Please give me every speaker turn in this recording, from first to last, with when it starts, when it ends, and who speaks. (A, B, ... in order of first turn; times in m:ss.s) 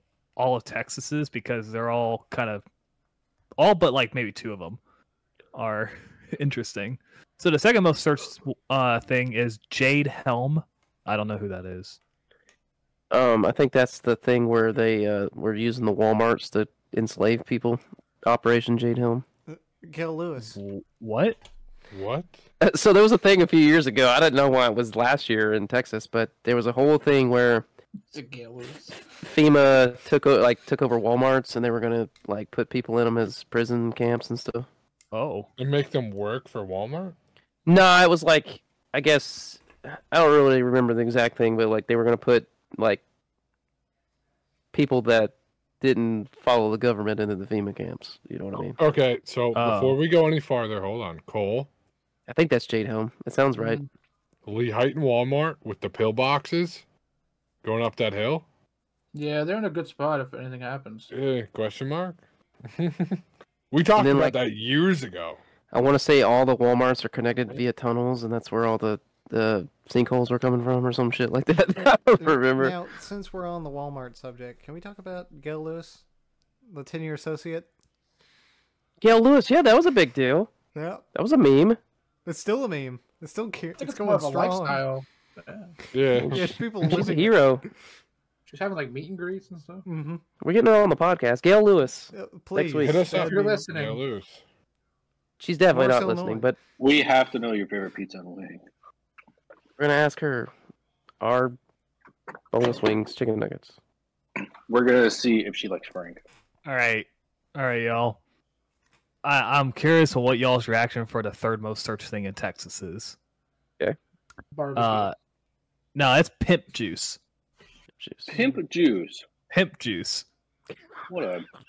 0:00.4-0:02.6 A
0:03.6-0:04.8 A
0:05.5-0:12.0 A
0:13.1-0:19.2 B
0:19.5-0:20.6 C
0:20.5-0:21.4 A
0:21.9-0:22.4 D
0:22.6-0:27.6 B
0:28.1-0:29.0 E
0:29.2-0:34.7 B
0:35.1-0:35.5 A
0:35.6-0:37.2 D
0:37.6-0:43.0 B
0:44.7-0:48.8 B
0:48.8-0:51.7 D
0:49.5-0:50.0 A
0:52.3-0:53.8 B
0:53.6-0:53.8 E
0:54.4-0:56.8 D
0:57.6-0:58.4 D
0:59.1-1:01.1 E
1:01.1-1:05.4 D
1:04.0-1:04.4 B
1:05.7-1:12.8 B
1:12.2-1:16.0 C
1:16.7-1:17.7 C
1:19.0-1:20.5 B
1:20.7-1:21.0 C
1:21.1-1:21.8 B
1:22.2-1:24.8 C
1:23.8-1:25.7 E
1:25.9-1:26.6 D
1:26.1-1:27.6 B
1:26.3-1:27.4 C
1:28.5-1:29.8 E
1:29.8-1:30.2 C
1:30.4-1:33.1 B
1:32.1-1:33.6 C
1:32.8-1:34.4 D
1:33.1-1:34.0 E
1:35.4-1:36.6 B
1:35.7-1:36.5 C
1:36.8-1:38.6 F
1:39.8-1:40.5 B
1:41.2-1:41.6 B
1:42.5-1:43.7 B
1:44.7-1:46.2 F
1:46.6-1:48.2 A
1:49.2-1:53.2 A
1:54.5-1:55.1 E
1:54.8-1:55.1 A
1:55.9-1:57.2 A
1:58.0-1:58.6 B
1:58.3-1:59.2 F
1:59.5-2:00.2 A
2:01.1-2:01.4 F